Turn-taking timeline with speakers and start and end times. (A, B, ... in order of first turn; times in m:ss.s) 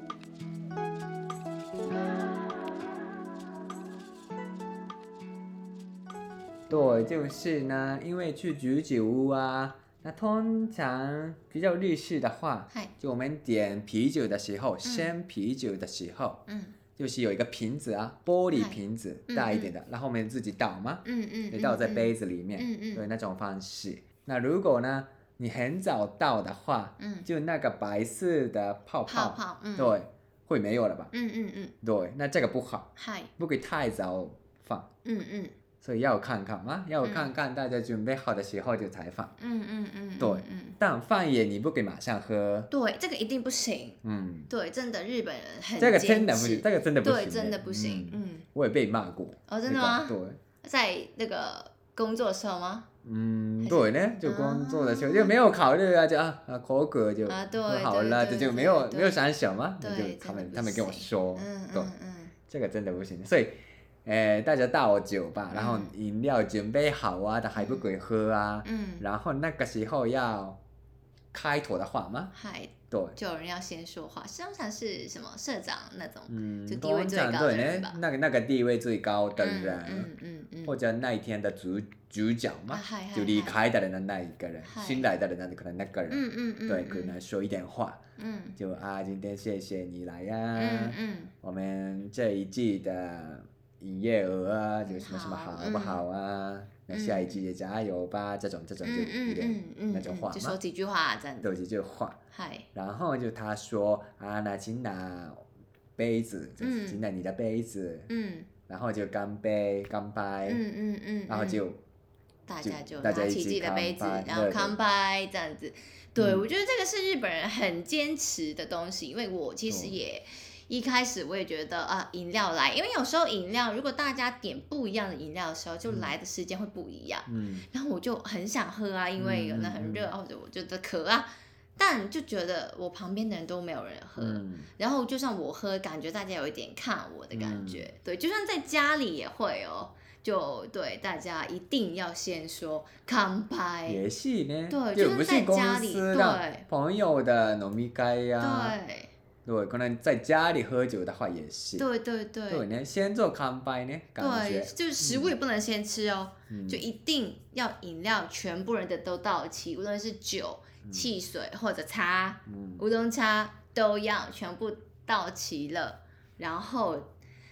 0:06.7-0:16.4 A
0:14.8-0:15.1 B
0:16.5-0:16.8 B
0:17.0-0:31.1 A
0:18.5-0:19.7 B
0:21.0-0:23.0 B
0:27.0-0:27.3 B
0:29.1-0:30.0 B
0:31.1-0:31.7 B
0:31.8-0:34.9 A
0:33.0-0:33.3 B
0:35.0-0:35.5 B
0:35.8-0:39.3 A
0:37.0-0:37.3 B
0:39.4-0:40.8 B
0:40.2-0:42.7 A
0:42.7-0:48.4 B
0:44.0-0:44.5 A
0:45.8-0:50.4 A
0:49.5-0:52.9 B
0:53.0-1:01.9 A
0:53.6-0:55.4 B
0:57.2-0:59.2 B
0:59.8-1:02.3 B
1:02.5-1:10.6 A
1:05.5-1:05.9 B
1:07.6-1:07.9 B
1:08.6-1:09.0 B
1:11.3-1:12.3 A
1:12.3-1:18.0 B
1:12.9-1:13.2 A
1:16.3-1:20.1 A
1:19.4-1:20.8 B
1:20.6-1:28.0 A
1:22.7-1:23.6 B
1:24.6-1:25.1 B
1:26.1-1:27.2 B
1:28.2-1:28.6 B
1:28.6-1:40.6 A
1:30.5-1:31.3 B
1:34.8-1:36.0 B
1:36.9-1:37.4 B
1:38.8-1:41.5 B
1:41.4-1:42.2 A
1:42.3-1:42.7 B
1:42.7-1:45.4 A
1:46.0-1:48.1 A
1:46.6-1:47.0 B
1:48.1-1:48.5 B
1:48.7-1:50.6 A
1:50.4-1:51.6 B
1:51.3-1:51.8 A
1:52.5-2:24.0 B
1:52.6-1:54.8 A
1:56.2-1:56.4 A
1:59.7-2:00.0 A
2:05.9-2:06.1 A
2:07.3-2:07.7 A
2:09.2-2:10.1 A
2:14.2-2:14.7 A
2:17.3-2:17.9 A
2:23.9-2:28.8 A
2:24.7-2:26.6 B
2:28.4-2:29.1 B
2:29.4-2:31.8 A
2:31.8-2:32.6 B
2:32.5-2:35.3 A
2:34.2-2:47.1 B
2:36.5-2:36.8 A
2:40.8-2:41.1 A
2:42.4-2:42.8 A